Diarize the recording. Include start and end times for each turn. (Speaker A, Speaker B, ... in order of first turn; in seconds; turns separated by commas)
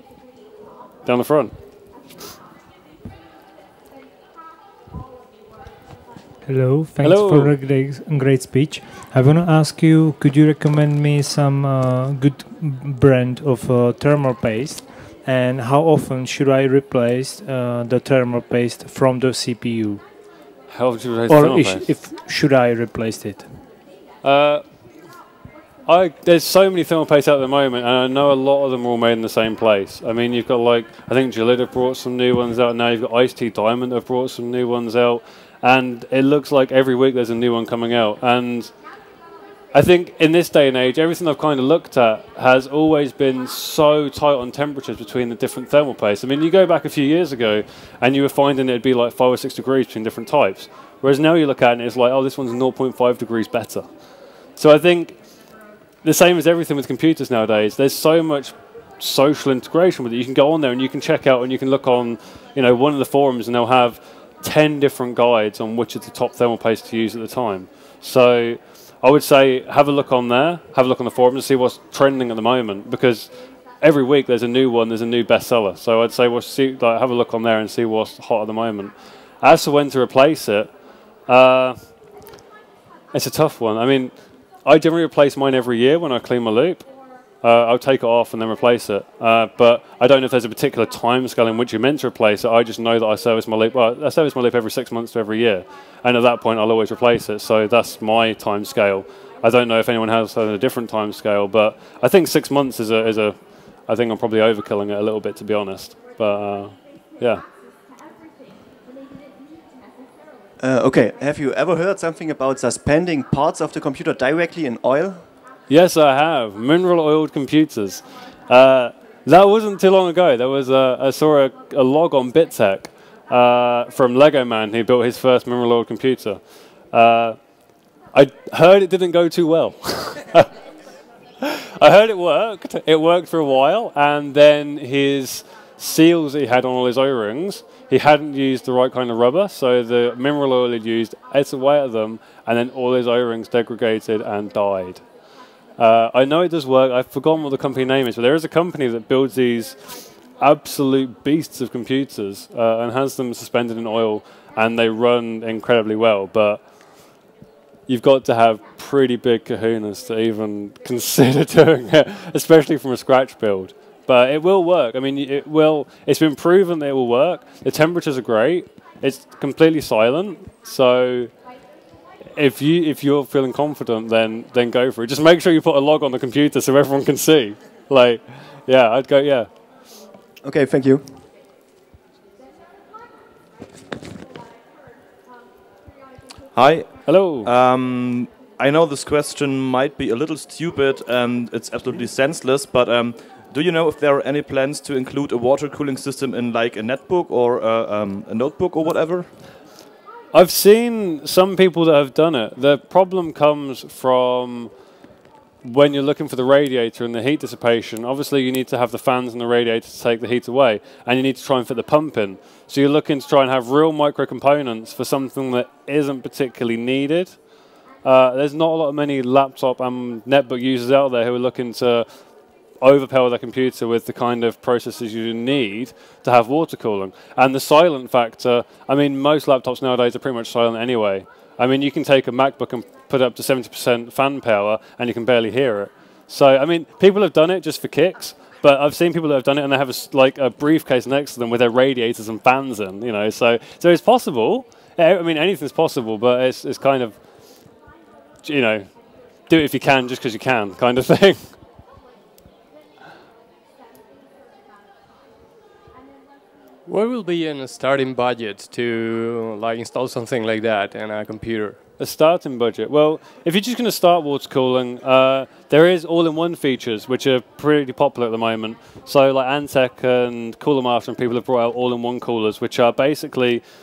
Speaker A: 1.1-1.5, Speaker B: 6.4-20.0, Speaker A: 7.0-7.5, Speaker A: 20.7-21.9, Speaker B: 21.3-23.5, Speaker A: 24.2-24.6, Speaker A: 25.9-38.7, Speaker A: 39.7-53.9, Speaker A: 54.6-55.1, Speaker A: 56.0-80.7, Speaker A: 81.3-81.8, Speaker A: 83.1-86.8, Speaker A: 87.4-107.4, Speaker C: 110.6-115.2, Speaker A: 115.7-126.4, Speaker A: 126.9-127.4, Speaker A: 128.1-130.5, Speaker A: 131.4-145.0, Speaker A: 145.8-156.6, Speaker A: 157.9-171.3, Speaker A: 172.3-179.5, Speaker C: 180.4-181.2, Speaker D: 186.5-199.3, Speaker A: 187.0-187.5, Speaker A: 200.3-204.7, Speaker A: 205.6-217.4, Speaker A: 218.0-222.1, Speaker A: 222.8-247.2, Speaker A: 248.4-248.9, Speaker A: 249.5-251.6, Speaker E: 256.9-261.8, Speaker A: 262.0-273.6